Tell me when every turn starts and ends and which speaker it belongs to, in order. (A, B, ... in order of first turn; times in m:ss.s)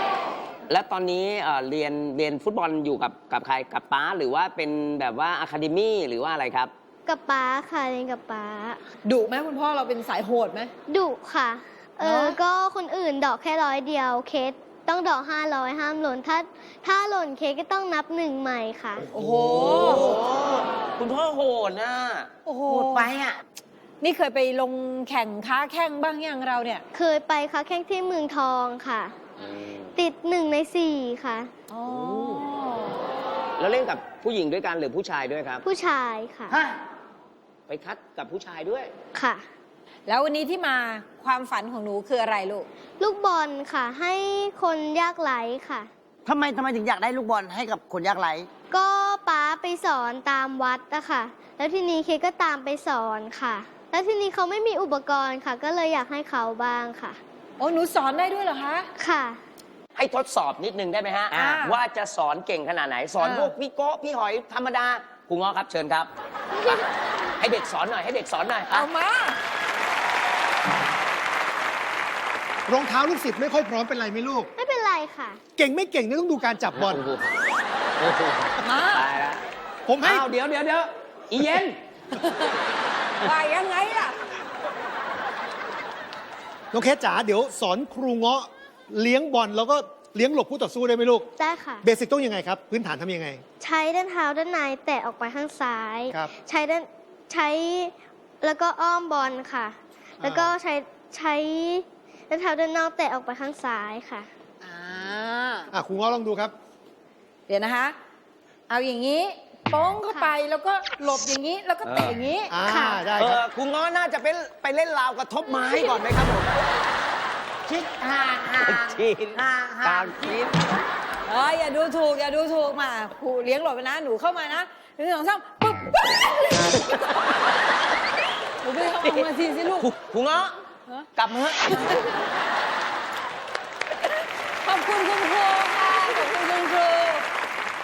0:00.7-0:06.7 A
0:07.0-0:08.8 B
0:09.0-0:10.7 C
0:10.9-0:19.0 B
0:12.0-0:12.4 C
0:19.1-0:20.1 C
0:19.5-0:23.4 A
0:22.4-0:23.1 C
0:24.0-0:26.8 C
0:26.9-0:29.2 B
0:29.4-0:29.9 A
0:30.0-0:31.5 B
0:31.7-0:32.9 C
0:33.6-0:35.6 A
0:35.6-0:36.5 B
0:36.5-0:36.8 D
0:37.7-0:38.9 A
0:39.1-0:39.4 B
0:40.1-0:42.7 C
0:43.0-0:45.9 B
0:46.2-0:48.5 D
0:48.7-0:57.2 B
0:57.6-0:58.9 C
0:59.0-0:59.4 B
1:00.0-1:06.8 A
1:01.3-1:01.8 C
1:03.2-1:03.5 C
1:07.4-1:08.9 A
1:08.7-1:09.4 C
1:12.7-1:14.5 E
1:14.6-1:15.4 B
1:15.6-1:17.0 E
1:16.7-1:17.4 A
1:18.0-1:19.4 A
1:18.6-1:19.1 C
1:19.9-1:20.3 E
1:20.0-1:21.8 A
1:22.2-1:22.5 C
1:23.2-1:24.2 C
1:26.7-1:31.3 E
1:31.4-1:31.8 B
1:31.8-1:33.4 E
1:33.6-1:44.3 B
1:40.2-1:40.5 E
1:44.6-1:45.7 C
1:45.7-1:46.5 E
1:47.5-1:48.0 C
1:48.7-1:52.5 C
1:51.8-1:52.2 A
1:52.5-1:53.4 E
1:52.6-1:53.0 B
1:53.2-1:56.6 A
1:57.7-2:00.4 D
1:58.6-2:00.6 A
2:01.2-2:07.1 C
2:08.6-2:09.9 C
2:09.8-2:10.5 A
2:11.2-2:12.0 A
2:11.7-2:12.0 C
2:14.6-2:17.2 C